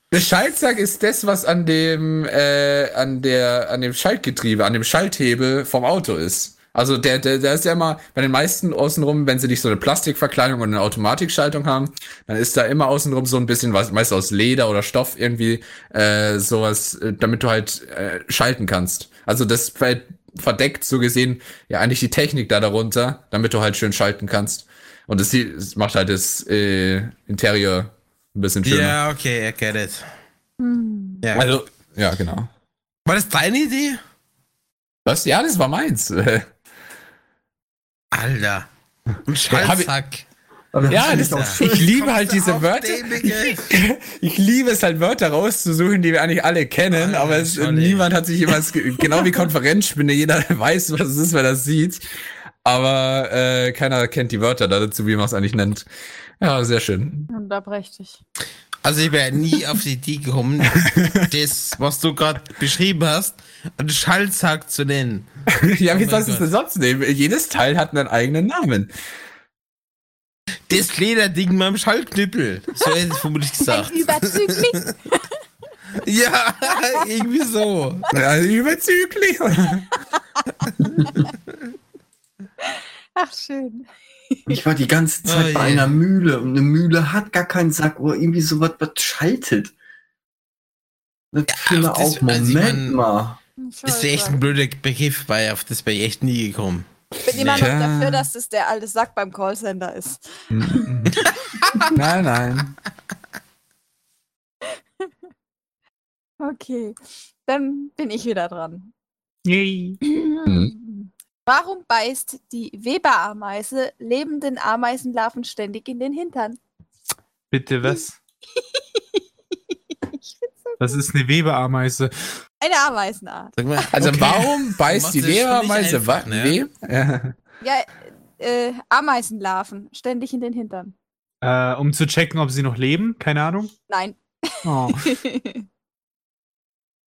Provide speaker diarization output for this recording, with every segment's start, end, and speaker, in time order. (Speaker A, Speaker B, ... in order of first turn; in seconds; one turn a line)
Speaker A: 0.1-29.0
Speaker B: 28.6-30.1
Speaker C: 30.6-31.2
Speaker B: 31.2-31.5
Speaker A: 31.3-32.5
Speaker B: 33.0-34.0
Speaker A: 35.0-36.5
Speaker B: 38.1-38.7
Speaker B: 39.2-40.2
Speaker A: 39.5-39.9
Speaker D: 40.7-41.9
Speaker A: 40.9-52.0
Speaker B: 40.9-43.7
Speaker B: 46.9-48.1
Speaker A: 52.6-55.9
Speaker A: 56.4-57.3
Speaker C: 57.3-58.2
Speaker B: 58.8-65.3
Speaker A: 60.8-61.2
Speaker A: 65.5-68.9
Speaker B: 65.9-66.5
Speaker B: 70.7-74.9
Speaker C: 73.6-75.3
Speaker B: 76.0-78.1
Speaker A: 78.1-79.9
Speaker C: 82.7-84.5
Speaker D: 84.5-89.7
Speaker B: 85.2-86.0
Speaker D: 91.3-93.4
Speaker B: 91.5-93.0
Speaker C: 93.6-94.4
Speaker B: 93.8-97.7
Speaker C: 97.2-100.8
Speaker A: 97.5-98.3
Speaker A: 100.5-101.2
Speaker C: 101.6-101.9
Speaker A: 101.9-102.8
Speaker C: 104.7-105.1
Speaker C: 106.4-108.9
Speaker E: 109.4-110.0
Speaker C: 110.0-116.6
Speaker A: 110.5-110.7
Speaker E: 117.5-118.1
Speaker C: 118.6-119.2
Speaker C: 120.1-121.0
Speaker E: 120.8-122.1
Speaker C: 122.6-123.8
Speaker B: 123.6-126.6
Speaker A: 123.9-127.3
Speaker C: 127.6-130.9
Speaker E: 131.4-133.7
Speaker C: 133.9-135.7
Speaker E: 134.6-135.1